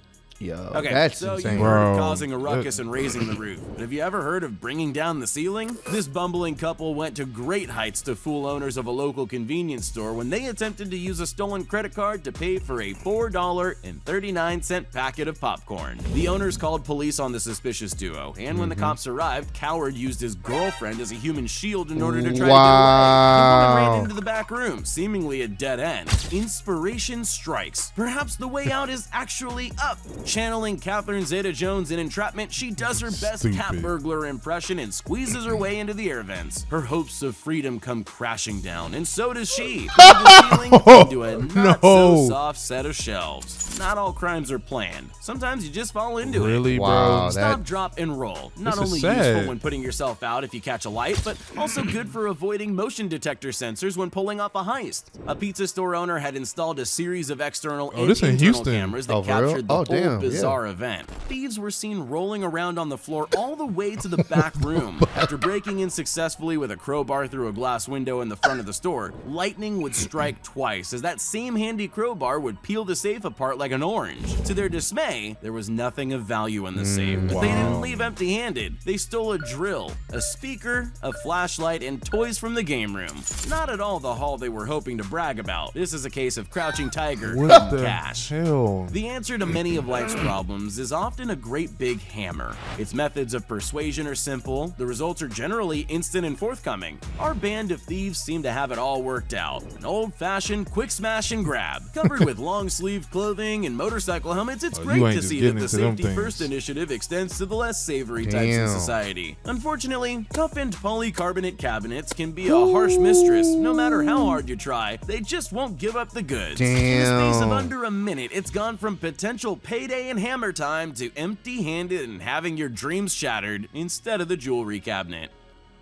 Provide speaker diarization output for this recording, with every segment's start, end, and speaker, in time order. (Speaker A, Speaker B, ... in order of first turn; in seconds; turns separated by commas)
Speaker A: 0.4-1.8, Speaker B: 0.7-46.7, Speaker C: 1.5-2.7, Speaker C: 18.5-18.9, Speaker A: 22.0-24.1, Speaker C: 32.8-33.9, Speaker C: 40.0-42.4, Speaker C: 46.2-47.4, Speaker A: 46.7-47.6, Speaker B: 47.3-88.3, Speaker C: 48.7-49.6, Speaker C: 57.9-59.0, Speaker A: 59.1-60.6, Speaker A: 64.8-65.3, Speaker A: 76.8-77.8, Speaker C: 77.2-78.1, Speaker C: 87.2-89.0, Speaker B: 88.9-125.3, Speaker C: 104.7-106.5, Speaker A: 108.2-109.0, Speaker A: 112.5-114.4, Speaker A: 116.6-117.7